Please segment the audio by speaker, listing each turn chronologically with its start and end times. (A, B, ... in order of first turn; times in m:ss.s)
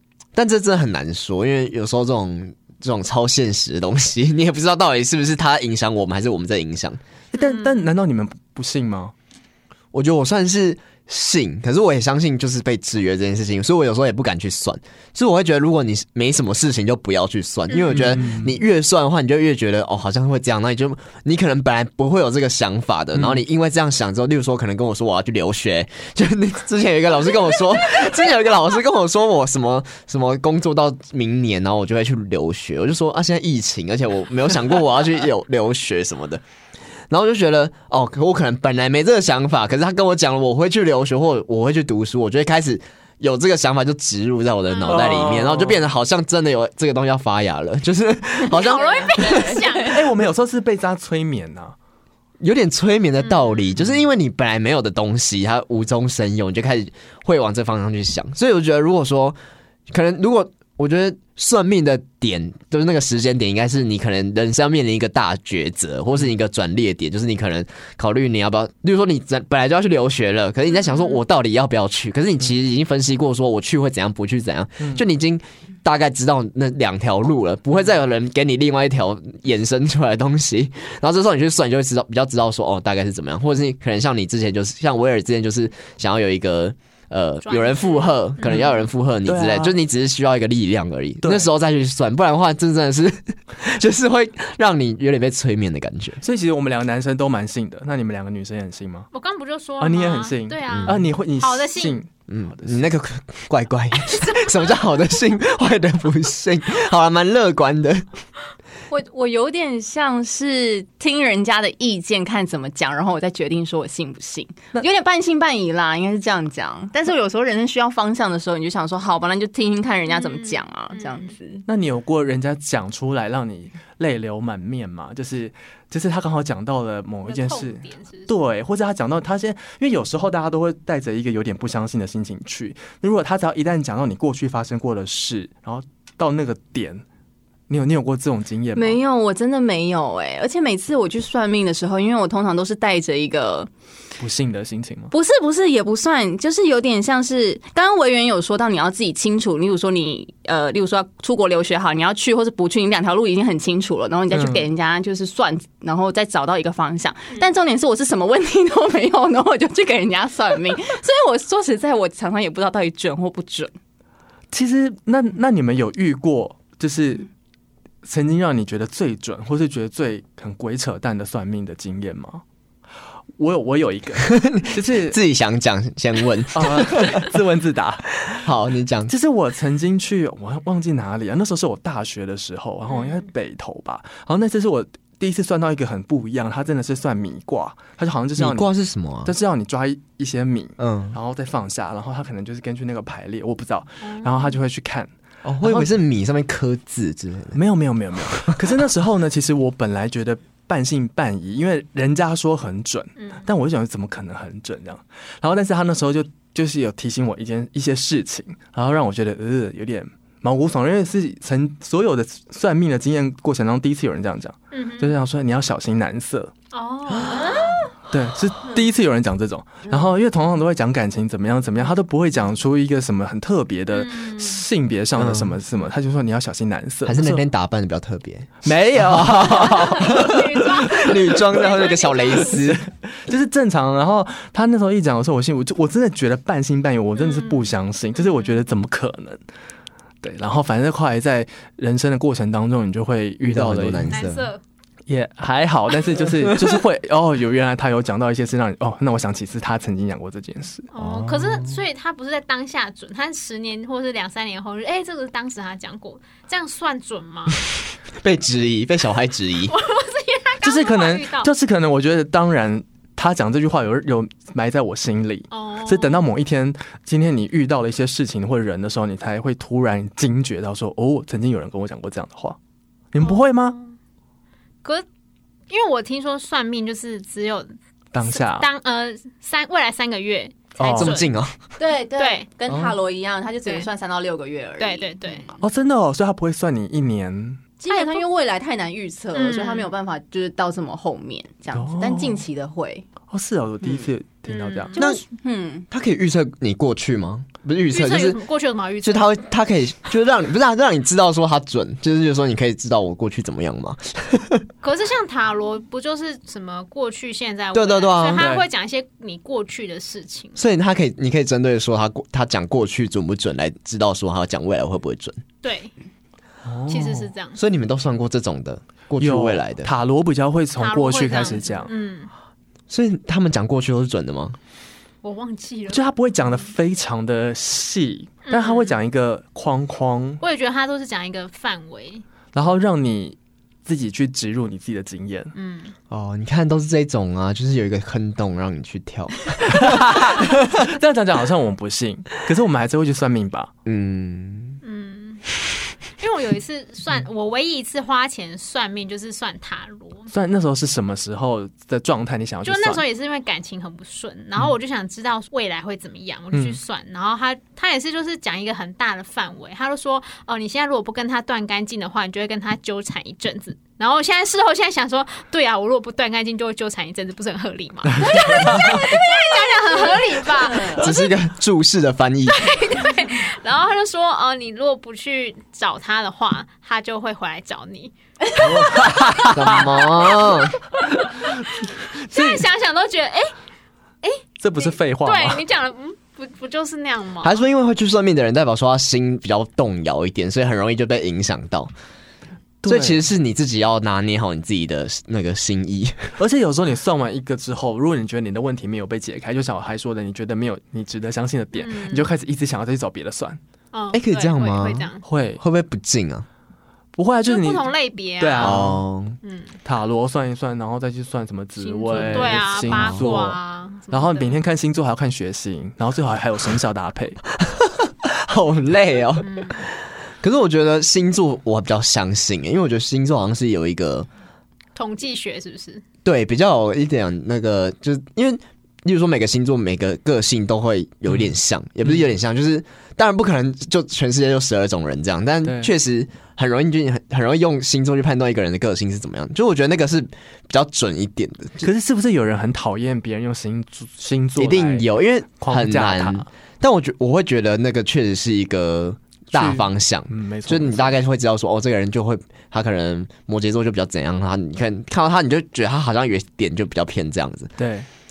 0:00.4-0:07.0 A
0:07.3-0:09.1 B
0:07.4-0:07.9 C
0:09.9-0:36.4 A
0:17.7-0:18.3 C
0:17.9-0:18.6 B
0:23.2-0:23.4 B
0:37.1-0:49.6 A
0:44.7-0:45.3 C
0:44.9-0:45.8 B
0:48.5-0:50.1 C
0:48.6-0:49.9 D
0:49.8-0:51.8 B
0:52.4-0:59.4 A
0:53.2-0:53.8 C
0:59.9-1:36.2 A
1:27.4-1:28.6 C
1:28.4-1:29.8 B
1:31.2-1:31.5 B
1:36.2-1:39.1 B
1:39.1-1:42.0 C
1:39.8-1:42.8 B
1:40.7-1:41.0 A
1:42.3-1:48.1 A
1:48.9-2:01.6 D
2:00.1-2:01.3 C
2:01.7-2:17.0 B
2:07.3-2:08.3 C
2:17.7-2:19.0 B
2:18.8-2:23.7 D
2:24.2-2:25.1 B
2:25.1-2:43.7 D
2:34.3-2:34.7 B
2:44.5-2:47.3 B
2:48.0-2:52.4 B
2:53.4-2:55.2 B
2:54.3-2:57.3 A
2:56.5-2:58.4 B
2:58.3-2:59.1 A
2:59.1-3:08.7 B
3:02.9-3:03.2 C
3:08.4-3:09.3 A
3:09.2-3:16.0 B
3:10.8-3:11.2 A
3:14.0-3:14.6 C
3:15.4-3:17.6 A
3:17.5-3:36.5 B
3:23.2-3:23.4 C
3:34.7-3:35.2 C
3:36.7-3:37.8 C
3:37.5-3:37.7 D
3:38.1-3:47.4 B
3:43.9-3:44.6 C
3:45.2-3:45.6 A
3:47.0-3:52.8 A
3:48.6-3:51.5 B
3:49.4-3:52.6 C
3:52.5-3:59.4 B
3:57.2-3:58.6 C
4:00.2-4:04.1 B
4:03.4-4:04.5 A
4:04.1-4:04.6 C
4:05.1-4:10.9 B
4:10.9-4:17.6 C
4:11.0-4:11.8 A
4:18.2-4:19.8 A
4:19.7-4:21.5 C
4:20.6-4:32.6 B
4:25.5-4:26.3 C
4:33.1-4:33.8 B
4:33.2-4:33.9 C
4:35.7-4:41.3 C
4:38.1-4:38.7 B
4:40.8-4:41.2 B
4:40.9-4:41.6 A
4:41.8-4:45.5 D
4:42.2-4:42.5 C
4:42.7-4:42.9 B
4:44.8-4:45.5 C
4:45.6-4:47.6 B
4:47.8-4:53.1 D
4:47.9-4:48.2 C
4:49.3-4:49.9 C
4:51.7-4:52.4 B
4:53.3-4:55.0 B
4:54.5-4:55.0 C
4:55.0-4:55.2 A
4:55.0-4:55.9 D
4:55.9-4:58.4 A
4:57.9-4:59.4 C
4:59.0-5:04.7 A
5:04.8-5:10.6 C
5:07.7-5:08.5 A
5:08.4-5:08.7 B
5:10.6-5:15.4 A
5:15.6-5:15.9 C
5:16.6-5:17.3 B
5:16.9-5:17.6 C
5:17.6-5:19.9 A
5:19.2-5:21.9 B
5:20.8-5:22.3 C
5:22.9-5:24.6 A
5:25.2-5:26.1 C
5:25.9-5:30.4 B
5:28.5-5:29.0 C
5:30.4-5:32.2 C
5:32.5-5:35.5 B
5:35.6-5:35.9 C
5:36.1-5:40.5 A
5:39.7-5:43.7 B
5:43.9-5:44.8 A
5:44.8-5:45.5 C
5:46.2-5:50.3 C
5:50.3-5:53.0 B
5:52.6-6:11.3 C
5:56.5-5:56.8 B
6:08.2-6:09.0 B
6:08.3-6:11.0 D
6:10.9-6:12.7 A
6:12.5-6:19.1 C
6:18.6-6:20.0 B
6:19.5-6:20.8 A
6:19.7-6:20.5 C
6:21.3-6:21.6 B
6:22.2-6:22.7 B
6:22.2-6:23.5 C
6:24.2-6:27.6 C
6:24.6-6:25.6 B
6:27.4-6:31.9 A
6:32.8-6:33.2 B
6:32.8-6:36.4 A
6:36.4-6:43.6 B
6:41.8-6:42.3 C
6:43.9-6:45.2 C
6:44.1-6:46.5 A
6:45.2-6:45.6 B
6:47.2-6:49.0 B
6:47.4-6:48.9 C
6:48.6-6:49.4 A
6:49.4-6:49.8 C
6:49.8-6:53.6 B
6:51.8-6:54.6 C
6:52.1-6:53.3 A
6:54.1-6:57.4 B
6:57.7-7:04.3 A
6:59.4-6:59.8 C
7:05.0-7:06.0 C
7:06.2-7:21.9 A
7:15.6-7:15.9 B
7:21.8-7:25.1 B
7:24.6-7:37.7 A
7:25.6-7:26.5 B
7:29.5-7:31.2 B
7:37.8-7:38.1 B